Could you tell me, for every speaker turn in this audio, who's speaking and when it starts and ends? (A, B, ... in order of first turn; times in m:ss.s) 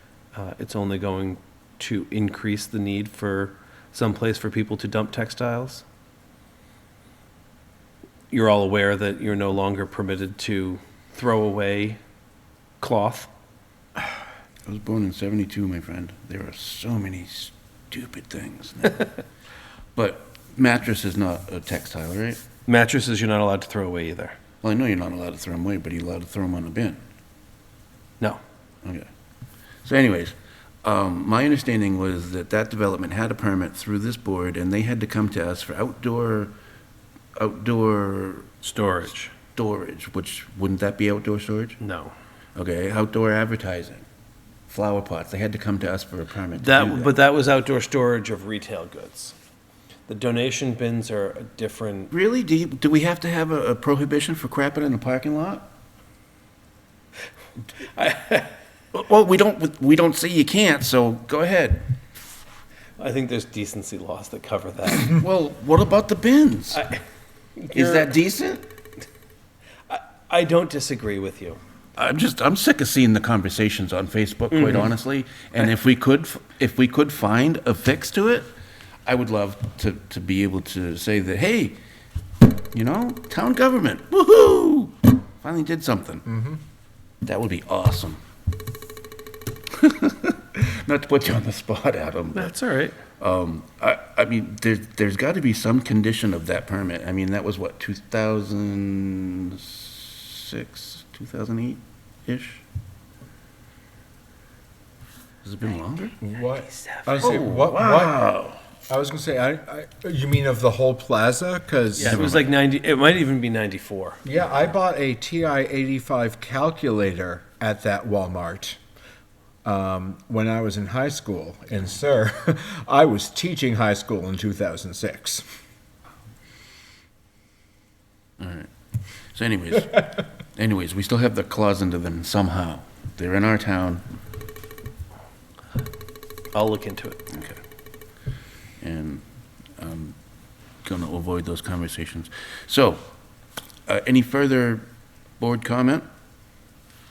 0:00.3-0:05.8 A
0:08.3-0:12.0 A
0:12.8-0:13.3 A
0:14.7-0:19.1 B
0:20.0-0:22.4 B
0:22.7-0:24.4 A
0:24.6-0:27.0 B
0:29.8-0:36.5 B
0:37.4-0:38.5 B
0:38.6-0:39.3 A
0:39.6-0:41.8 B
0:41.8-0:42.1 A
0:42.6-0:44.0 B
0:44.7-0:47.2 B
0:46.6-0:49.3 A
0:50.1-0:52.1 A
0:52.1-0:55.7 B
0:57.9-0:58.5 A
0:58.9-1:01.9 B
1:03.0-1:05.2 A
1:05.1-1:06.8 B
1:06.7-1:07.0 A
1:07.6-1:08.1 A
1:07.7-1:08.6 B
1:09.9-1:11.6 A
1:12.0-1:18.5 B
1:14.5-1:14.9 A
1:19.1-1:21.8 B
1:22.7-1:26.2 B
1:26.3-1:26.6 C
1:27.2-1:28.2 B
1:29.8-1:32.5 B
1:32.3-1:33.0 A
1:33.2-1:42.6 B
1:45.4-1:46.2 B
1:46.2-1:48.2 C
1:46.5-1:47.4 A
1:47.2-1:48.6 B
1:48.9-1:52.4 C
1:52.0-1:54.2 A
1:52.1-1:52.3 B
1:54.2-1:58.8 C
1:59.6-2:05.4 C
2:08.4-2:08.7 B
2:09.3-2:14.0 B
2:16.5-2:17.2 A
2:17.3-2:17.6 B
2:18.8-2:19.2 B
2:19.8-2:20.2 B
2:20.8-2:23.0 B
2:23.9-2:24.9 B
2:25.4-2:26.1 B